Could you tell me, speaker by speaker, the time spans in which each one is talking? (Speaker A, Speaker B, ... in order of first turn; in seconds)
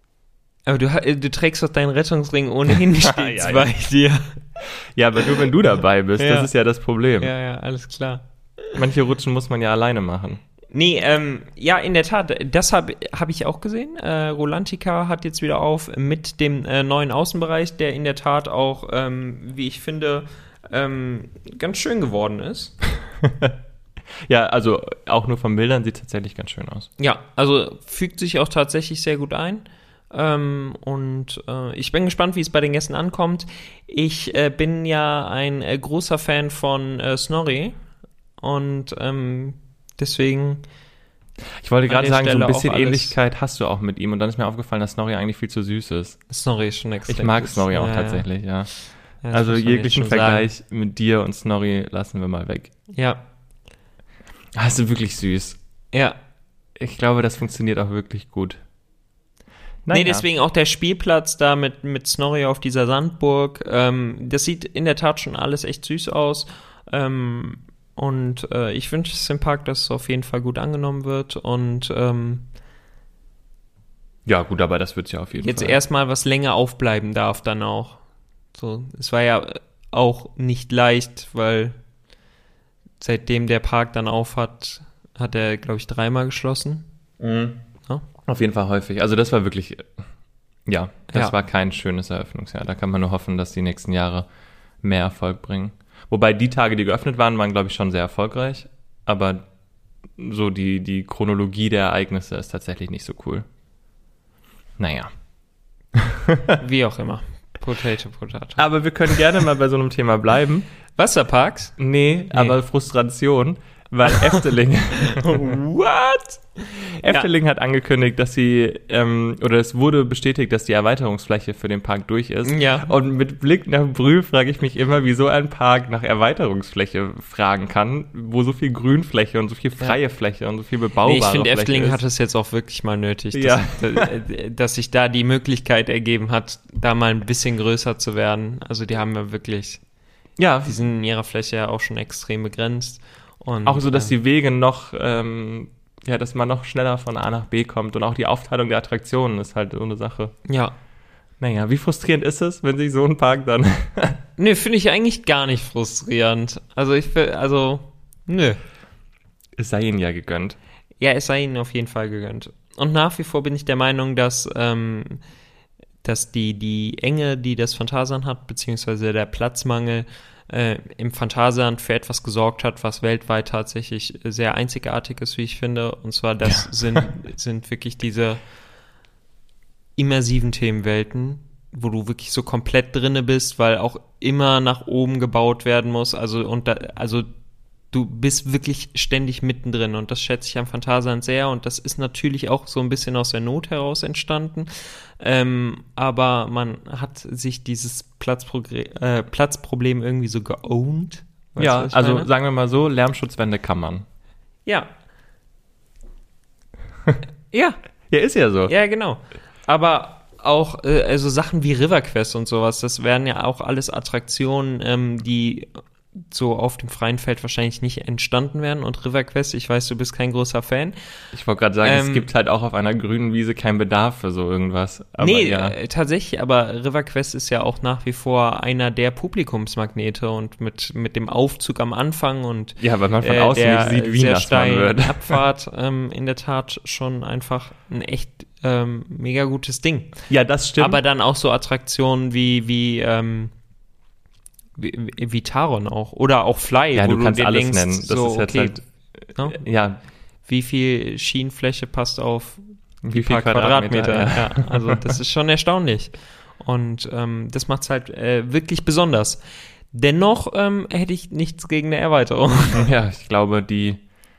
Speaker A: 0.7-4.4, 6.2-6.5, 7.2-8.7, 10.7-22.8, 27.0-37.8, 38.4-40.6, 41.9-43.1, 46.3-48.3, 49.2-50.5, 52.9-53.2, 55.9-56.2, 59.9-72.5, 75.4-78.0, 78.5-81.8, 83.0-86.9, 91.1-91.4, 106.6-108.6, 111.0-111.8, 112.3-112.6, 115.1-117.3, 122.5-122.9, 131.0-139.8, 140.7-144.1, 150.5-150.8, 154.4-158.6, 161.0-165.2, 166.0-178.4, 180.0-187.3, 187.9-202.3, 207.5-207.8, 208.7-221.0, 221.8-222.3, 225.2-243.5, 244.8-248.8, 249.4-249.6, 250.4-262.9
Speaker B: 3.0-3.7, 4.6-7.3, 8.7-10.4, 23.2-23.5, 24.3-26.9, 41.6-46.2, 47.1-52.7, 54.6-55.6, 56.8-58.6, 59.9-60.3, 74.3-75.8, 87.2-87.6, 88.3-90.0, 90.7-94.3, 94.8-99.5, 100.2-103.5, 104.8-105.1, 106.0-106.6, 108.6-110.7, 111.8-115.3, 117.0-132.0, 133.3-134.1, 140.4-140.8, 143.7-150.4, 151.4-154.2, 159.6-160.6, 176.4-177.1, 201.6-204.1, 208.1-208.7, 221.3-225.8, 232.8-235.4, 240.3-241.0, 246.9-250.0, 253.0-255.0, 262.8-264.0